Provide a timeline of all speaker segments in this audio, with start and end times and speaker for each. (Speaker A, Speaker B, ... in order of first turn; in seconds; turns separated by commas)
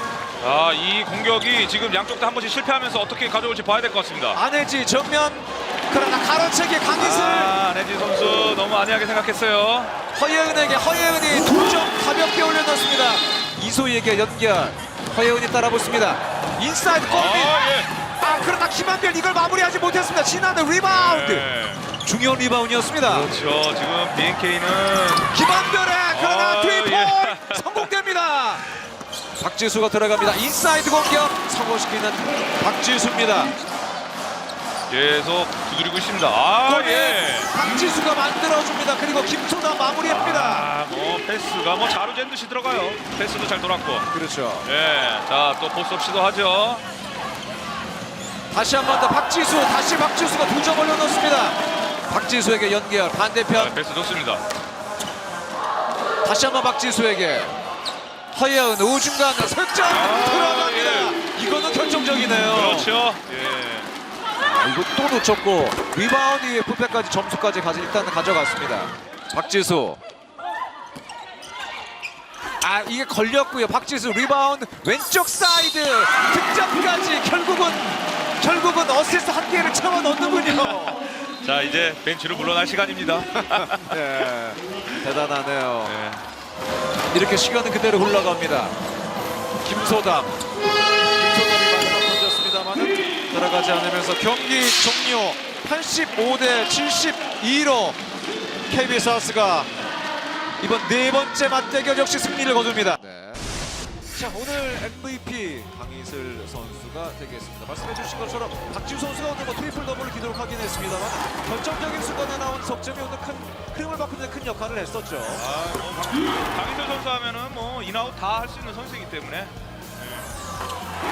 Speaker A: 0.4-4.4, Speaker B: 4.3-7.6, Speaker A: 6.9-9.9, Speaker B: 10.1-23.3, Speaker A: 17.0-17.9, Speaker A: 20.8-21.9, Speaker A: 23.0-25.4, Speaker B: 25.2-28.6, Speaker A: 26.1-27.9, Speaker B: 29.4-33.5, Speaker A: 34.9-37.7, Speaker B: 36.6-40.7, Speaker A: 40.0-44.1, Speaker B: 44.1-44.7, Speaker A: 44.6-46.8, Speaker B: 48.5-51.6, Speaker B: 52.1-53.8, Speaker A: 53.5-54.4, Speaker B: 56.2-57.5, Speaker B: 58.3-62.9, Speaker A: 59.9-61.1, Speaker A: 62.3-63.9, Speaker B: 64.4-70.0, Speaker B: 72.6-81.0, Speaker A: 81.3-84.0, Speaker B: 83.4-86.0, Speaker A: 85.8-86.2, Speaker B: 87.1-88.8, Speaker B: 89.6-90.4, Speaker B: 91.1-98.0, Speaker B: 98.7-99.7, Speaker B: 100.6-103.5, Speaker B: 104.1-115.5, Speaker A: 115.3-120.3